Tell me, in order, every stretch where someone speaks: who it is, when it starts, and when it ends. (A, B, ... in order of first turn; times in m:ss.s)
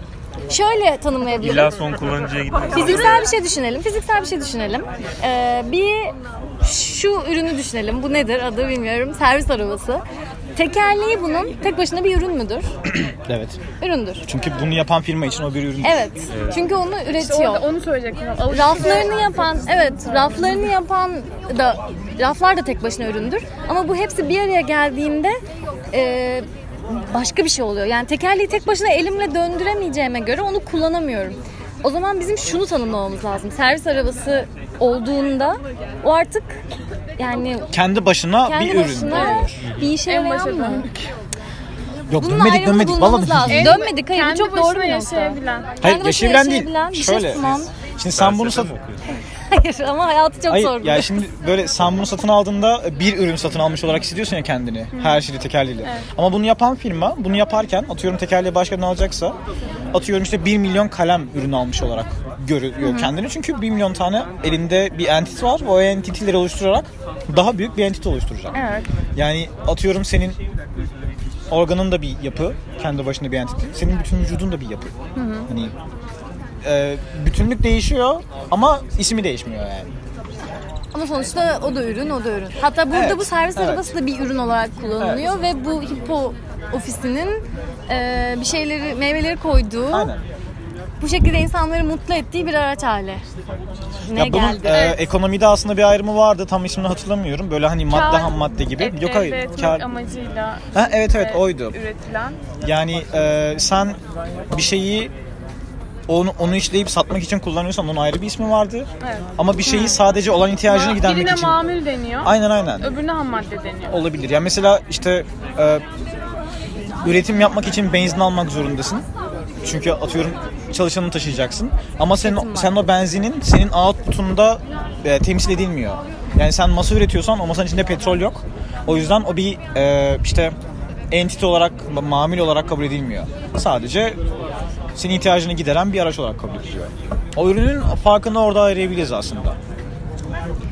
0:00.5-0:01.7 A
0:01.4-0:03.3 B
0:02.7-0:10.0 A
0:10.6-0:12.7 A
0:12.9-0:13.6 C
0:13.8-0:14.3 A
0:14.2-0:16.1 C
0:15.8-0:17.7 A
0:16.3-0:16.7 B
0:17.1-0:19.5 D
0:18.4-0:25.4 A
0:25.9-0:36.6 A
0:37.2-0:37.7 A
0:37.7-0:39.6 C
0:38.4-0:40.9 A
0:39.1-0:41.0 D
0:39.6-0:40.0 B
0:42.1-0:43.8 C
0:42.2-0:47.7 A
0:43.5-0:45.8 D
0:45.8-0:48.7 C
0:48.1-0:49.1 B
0:49.5-0:51.2 A
0:50.5-0:59.4 C
0:54.9-0:55.2 D
0:55.8-0:56.1 D
0:59.9-1:08.6 C
1:02.8-1:03.1 A
1:08.6-1:08.8 A
1:09.2-1:10.4 C
1:11.5-1:14.9 C
1:15.2-1:15.5 A
1:15.2-1:15.4 D
1:15.5-1:15.8 C
1:16.6-1:19.9 C
1:20.9-1:30.1 A
1:22.9-1:23.9 C
1:25.0-1:25.4 C
1:29.9-1:30.2 C
1:31.0-1:33.2 A
1:34.0-1:35.0 A
1:34.1-1:39.9 C
1:37.9-1:42.4 D
1:40.7-1:41.8 C
1:42.6-1:45.1 C
1:46.1-1:53.0 C
1:49.0-1:50.0 D
1:50.7-1:54.0 D
1:53.9-1:55.8 C
1:57.0-1:59.1 C
1:59.6-2:10.6 C
2:02.2-2:02.8 A
2:11.1-2:14.2 C
2:15.0-2:19.6 C